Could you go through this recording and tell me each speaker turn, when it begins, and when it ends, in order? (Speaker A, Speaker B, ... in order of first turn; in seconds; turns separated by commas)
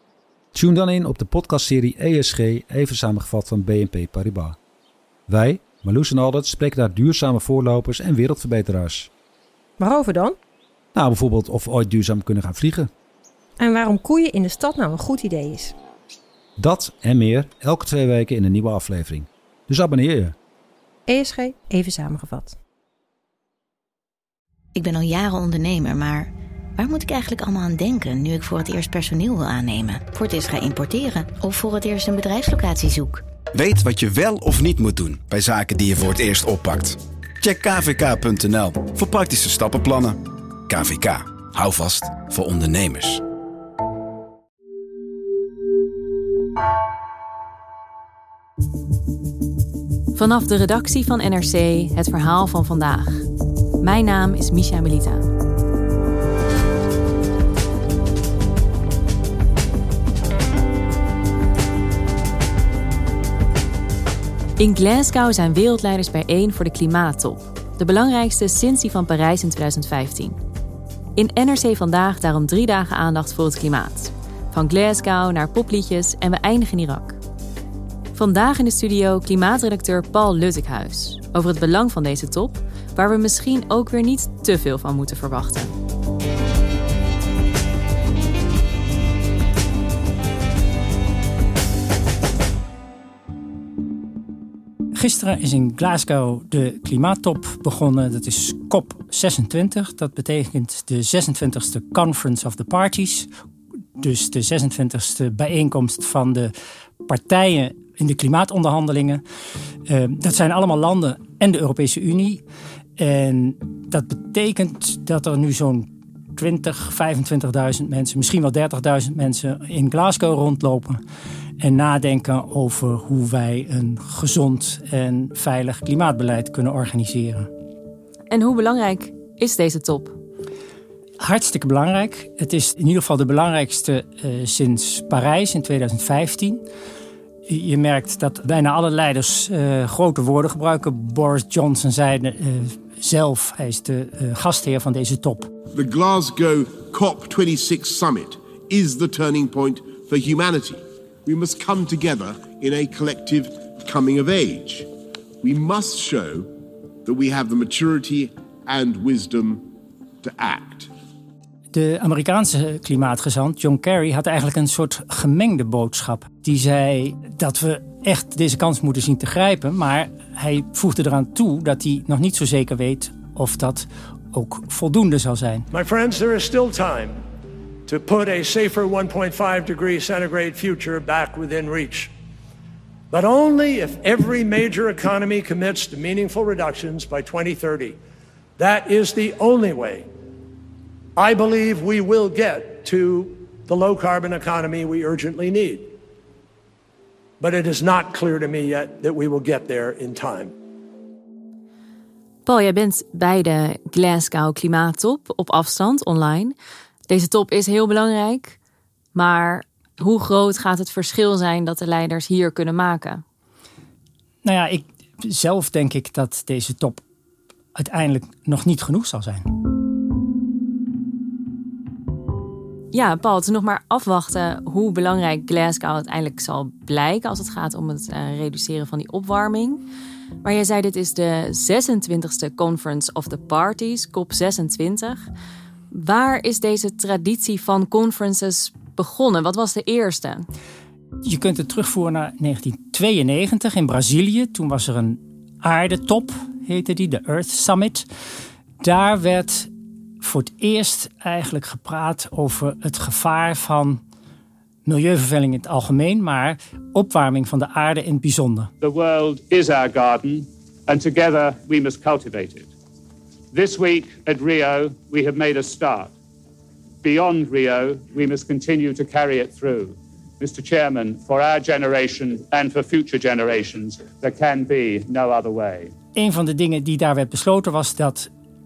Speaker A: 0.5-4.6, Speaker A: 5.3-9.1, Speaker B: 9.8-10.4, Speaker A: 10.9-12.9, Speaker B: 13.6-15.7, Speaker A: 16.6-20.4, Speaker B: 21.1-22.6, Speaker C: 24.8-33.2, Speaker D: 33.6-40.1, Speaker D: 40.7-43.2, Speaker E: 50.1-53.3, Speaker E: 53.8-55.3, Speaker E: 64.6-70.4, Speaker E: 71.2-77.2, Speaker E: 78.1-85.7, Speaker F: 95.0-103.3, Speaker F: 104.0-106.5, Speaker F: 107.1-109.2, Speaker F: 109.9-112.4, Speaker F: 113.0-121.0, Speaker F: 121.6-127.5, Speaker E: 128.3-130.2, Speaker F: 131.2-136.6, Speaker F: 137.5-145.5, Speaker G: 145.7-154.9, Speaker G: 155.4-156.5, Speaker G: 157.1-159.6, Speaker G: 160.2-160.9, Speaker F: 161.7-175.7, Speaker H: 175.7-177.2, Speaker H: 177.9-182.1, Speaker H: 183.1-188.0, Speaker H: 188.6-190.1, Speaker H: 191.2-195.9, Speaker H: 197.4-200.5, Speaker E: 202.5-206.6, Speaker E: 207.1-208.6, Speaker E: 209.2-213.2, Speaker F: 214.4-217.0, Speaker F: 217.8-219.4, Speaker E: 222.9-229.8, Speaker E: 230.4-235.3, Speaker E: 235.9-240.5, Speaker F: 241.2-248.1, Speaker F: 248.8-249.7, Speaker F: 250.2-254.0, Speaker F: 254.9-258.7, Speaker I: 258.8-262.7, Speaker I: 263.5-266.1, Speaker I: 267.0-275.9, Speaker F: 276.1-278.3